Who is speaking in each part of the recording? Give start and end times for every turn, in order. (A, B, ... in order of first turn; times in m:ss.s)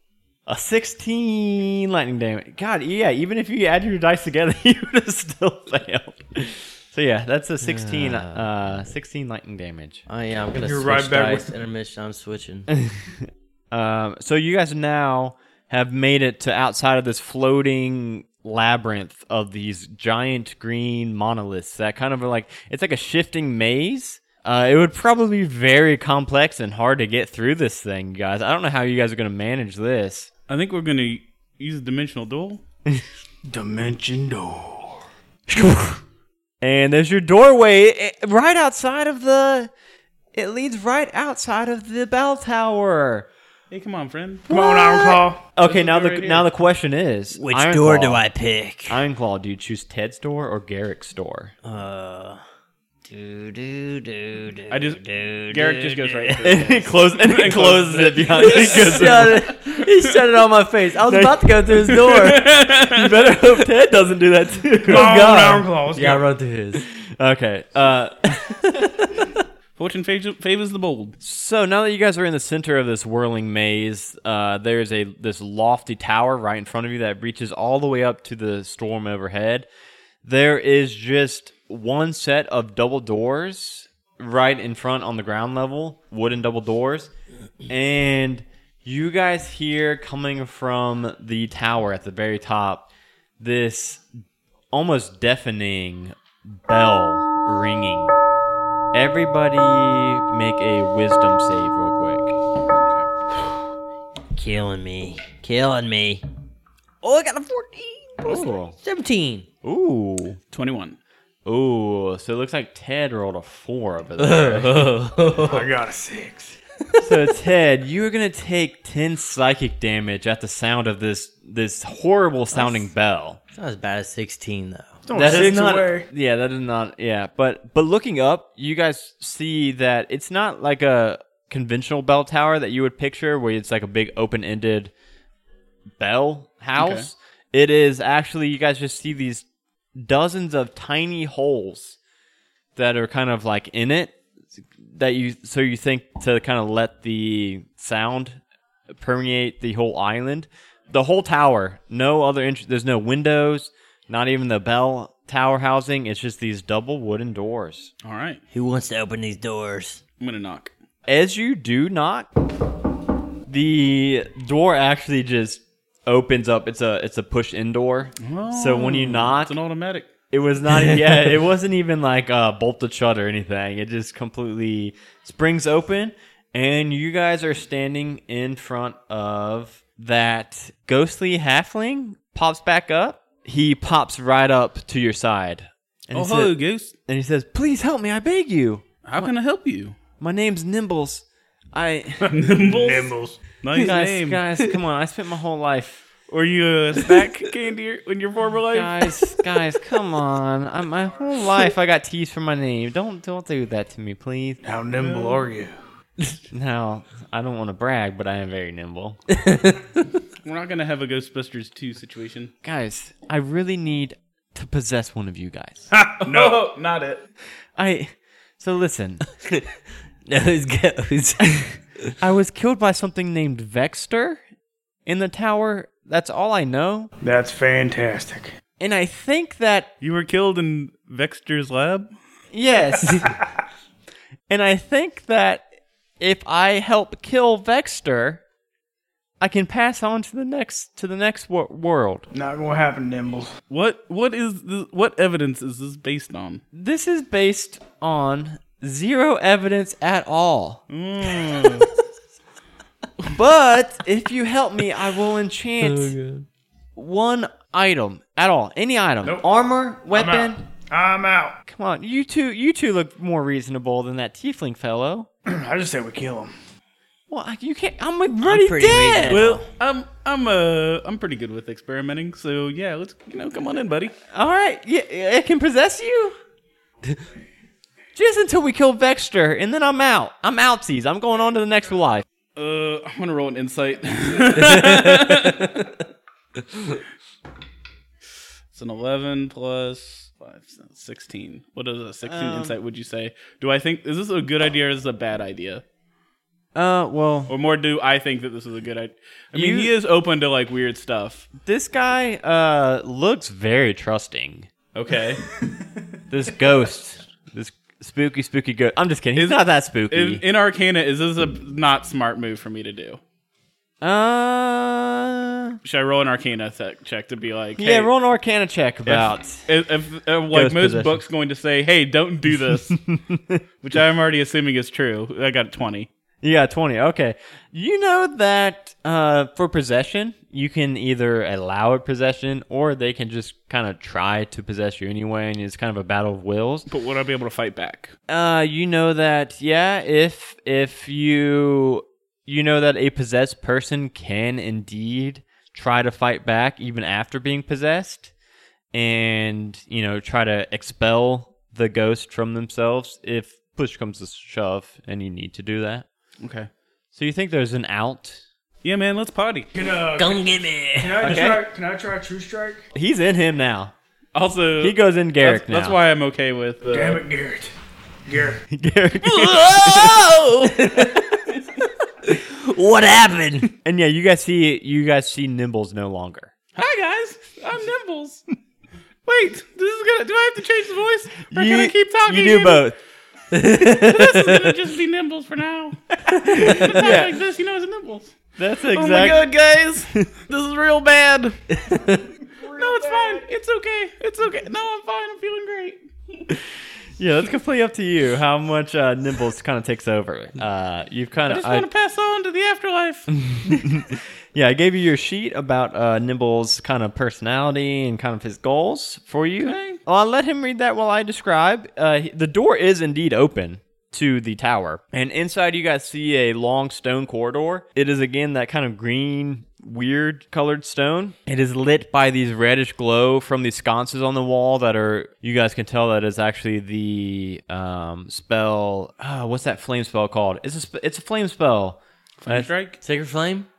0:00.5-0:10.0 A
0:07.6-0:08.5 B
0:10.1-0:12.7 B
0:10.5-0:11.5 C
0:12.7-0:30.3 A
0:30.5-0:32.6 D
0:33.4-0:35.0 C
0:36.6-0:39.7 A
0:40.3-0:43.3 A
0:43.7-0:44.4 D
0:44.5-0:45.4 C
0:44.5-0:48.2 A
0:45.6-0:46.5 D
0:47.3-0:49.0 B
0:48.9-0:51.5 A
0:51.6-0:52.4 B
0:53.1-0:56.7 B
0:54.7-0:59.8 D
0:56.4-0:59.5 A
0:58.4-1:02.5 B
1:01.1-1:05.6 A
1:02.0-1:03.1 D
1:04.9-1:06.3 C
1:04.9-1:06.8 B
1:06.9-1:09.3 A
1:09.8-1:11.2 D
1:11.2-1:19.7 A
1:20.2-1:27.1 A
1:27.7-1:32.9 A
1:33.4-1:34.1 A
1:34.7-1:38.2 A
1:38.9-1:42.4 A
1:44.3-1:46.2 B
1:47.0-1:49.5 B
1:48.2-1:48.8 A
1:49.6-1:50.4 A
1:50.5-1:51.0 D
1:51.4-1:55.0 A
1:54.2-1:55.7 B
1:55.4-1:56.6 C
1:57.0-2:03.4 A
2:02.5-2:02.9 B
2:03.5-2:05.0 B
2:05.1-2:06.1 C
2:05.1-2:14.9 A
2:16.0-2:19.4 A
2:16.8-2:17.1 D
2:20.0-2:22.0 A
2:22.8-2:28.4 A
2:29.0-2:37.9 A
2:38.0-2:38.4 D
2:38.5-2:40.0 B
2:40.2-2:40.7 D
2:41.1-2:42.3 A
2:43.5-2:49.6 A
2:48.2-2:50.1 D
2:50.3-3:09.3 A
3:06.1-3:06.9 D
3:09.0-3:10.0 D
3:10.2-3:12.3 A
3:12.2-3:13.4 C
3:12.3-3:14.4 D
3:13.8-3:16.1 A
3:16.3-3:19.2 D
3:18.7-3:24.6 A
3:24.6-3:25.7 C
3:25.0-3:25.4 D
3:26.5-3:29.2 A
3:29.3-3:30.0 B
3:30.4-3:32.5 D
3:32.6-3:35.9 A
3:35.9-3:36.7 C
3:36.2-3:37.2 D
3:37.8-3:39.2 A
3:40.3-3:41.8 B
3:42.2-3:44.4 A
3:45.1-3:47.1 A
3:47.2-3:48.5 C
3:48.8-3:49.9 A
3:50.0-3:52.1 D
3:52.5-3:53.4 A
3:54.5-3:55.7 A
3:56.2-3:58.4 A
3:59.4-4:02.3 A
4:02.3-4:03.5 C
4:03.7-4:06.6 D
4:06.7-4:10.8 A
4:10.9-4:11.9 D
4:13.3-4:16.2 A
4:15.8-4:16.5 B
4:17.0-4:20.6 A
4:20.1-4:21.6 C
4:21.7-4:25.3 A
4:25.5-4:26.5 C
4:27.3-4:29.4 A
4:28.4-4:29.7 B
4:29.3-4:34.2 D
4:34.3-4:36.4 A
4:38.2-4:42.2 A
4:42.6-4:45.9 D
4:44.7-4:45.8 B
4:48.7-4:55.8 D
4:52.2-4:52.8 A
4:56.8-4:57.5 A
4:57.5-5:01.5 D
4:59.5-4:59.9 A
5:01.6-5:04.7 A
5:04.9-5:05.5 D
5:06.3-5:10.4 A
5:09.4-5:13.2 D
5:14.0-5:15.8 A
5:15.8-5:18.1 D
5:17.8-5:19.7 A
5:19.1-5:23.0 D
5:20.5-5:21.2 A
5:23.0-5:23.6 A
5:23.8-5:26.1 D
5:26.4-5:36.9 A
5:36.9-5:38.1 D
5:38.3-5:48.3 A
5:48.9-5:56.1 A
5:56.4-5:56.7 D
5:57.1-5:58.4 A
5:58.8-5:59.7 D
5:59.7-6:02.8 C
6:00.2-6:01.3 B
6:01.2-6:01.6 A
6:02.9-6:03.9 A
6:04.3-6:07.2 D
6:04.8-6:06.0 A
6:06.9-6:07.7 C
6:08.3-6:08.6 C
6:08.7-6:10.2 A
6:09.3-6:10.8 D
6:09.6-6:11.6 B
6:12.2-6:13.7 B
6:13.8-6:16.5 A
6:16.8-6:18.4 D
6:19.3-6:22.8 D
6:21.5-6:23.0 A
6:23.5-6:24.8 B
6:23.9-6:28.4 D
6:26.3-6:27.3 A
6:26.3-6:27.1 B
6:28.6-6:29.4 A
6:28.9-6:31.6 D
6:31.7-6:32.3 B
6:32.6-6:33.4 C
6:32.7-6:36.0 D
6:37.2-6:41.9 A
6:41.5-6:43.3 D
6:43.4-7:12.7 A
6:49.6-6:50.0 D
7:12.4-7:13.0 D
7:13.0-7:13.7 B